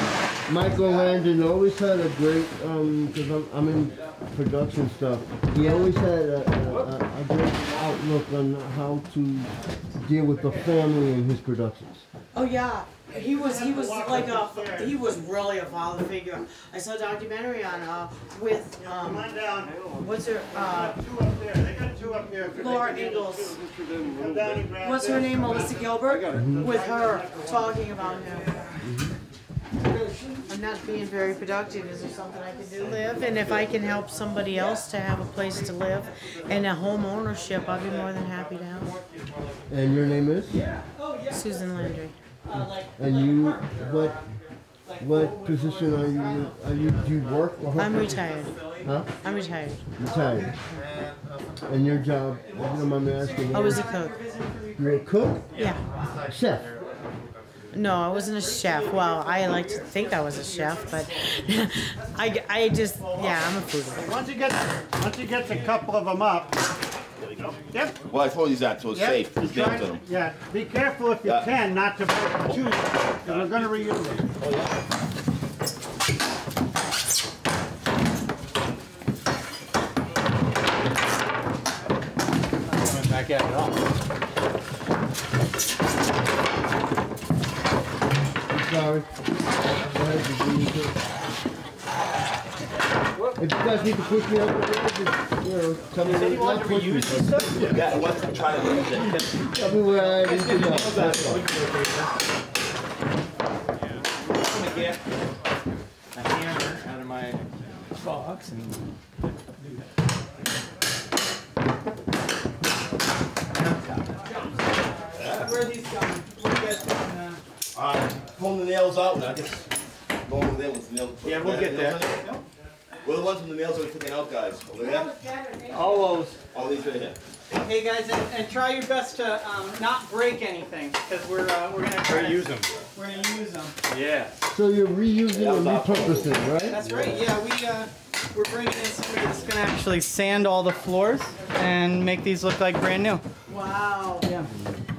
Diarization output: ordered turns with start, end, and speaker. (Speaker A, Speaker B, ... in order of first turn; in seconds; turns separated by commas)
Speaker A: 0.5-12.1, Speaker B: 5.6-5.9, Speaker B: 12.3-19.3, Speaker C: 13.1-15.0, Speaker C: 18.8-19.9, Speaker B: 19.9-21.0, Speaker C: 20.5-23.5, Speaker B: 22.5-23.6, Speaker C: 24.0-27.9, Speaker B: 24.8-28.5, Speaker A: 26.3-26.6, Speaker A: 28.8-29.1, Speaker B: 30.5-38.9, Speaker D: 32.8-34.0, Speaker E: 36.2-36.7, Speaker E: 37.4-39.4, Speaker A: 39.7-40.6, Speaker E: 40.5-41.9, Speaker B: 41.3-42.2, Speaker E: 42.4-44.3, Speaker A: 42.5-44.2, Speaker E: 44.9-47.0, Speaker A: 45.0-48.2, Speaker B: 47.7-48.6, Speaker E: 48.2-50.6, Speaker A: 48.8-49.1, Speaker B: 49.2-49.9, Speaker A: 50.0-50.6, Speaker C: 50.7-51.6, Speaker A: 51.7-53.9, Speaker E: 52.5-56.1, Speaker B: 53.5-54.1, Speaker A: 54.8-55.5, Speaker B: 55.5-55.9, Speaker C: 56.0-56.4, Speaker A: 56.3-56.7, Speaker B: 57.7-64.1, Speaker E: 58.1-61.0, Speaker E: 63.0-63.4, Speaker C: 63.9-66.6, Speaker D: 67.2-70.0, Speaker C: 67.7-68.0, Speaker C: 68.9-74.3, Speaker D: 74.4-74.7, Speaker E: 82.8-83.8, Speaker A: 88.5-89.1, Speaker A: 89.7-91.0, Speaker A: 93.4-97.5, Speaker E: 96.0-97.9, Speaker D: 97.5-99.6, Speaker A: 99.6-101.5, Speaker E: 100.0-102.0, Speaker F: 100.3-100.7, Speaker D: 100.8-101.3, Speaker F: 104.5-105.0, Speaker F: 106.1-107.4, Speaker F: 108.3-108.8, Speaker D: 115.2-115.5, Speaker E: 115.2-117.4, Speaker D: 117.7-119.7, Speaker D: 120.2-122.3, Speaker E: 121.2-122.4, Speaker D: 123.0-125.1, Speaker B: 124.8-126.2, Speaker E: 125.7-126.3, Speaker D: 126.5-127.2, Speaker E: 127.5-133.8, Speaker F: 132.2-132.7, Speaker F: 133.9-134.4, Speaker A: 134.5-136.8, Speaker D: 135.3-137.2, Speaker E: 136.7-143.2, Speaker B: 143.5-144.3, Speaker E: 144.2-144.5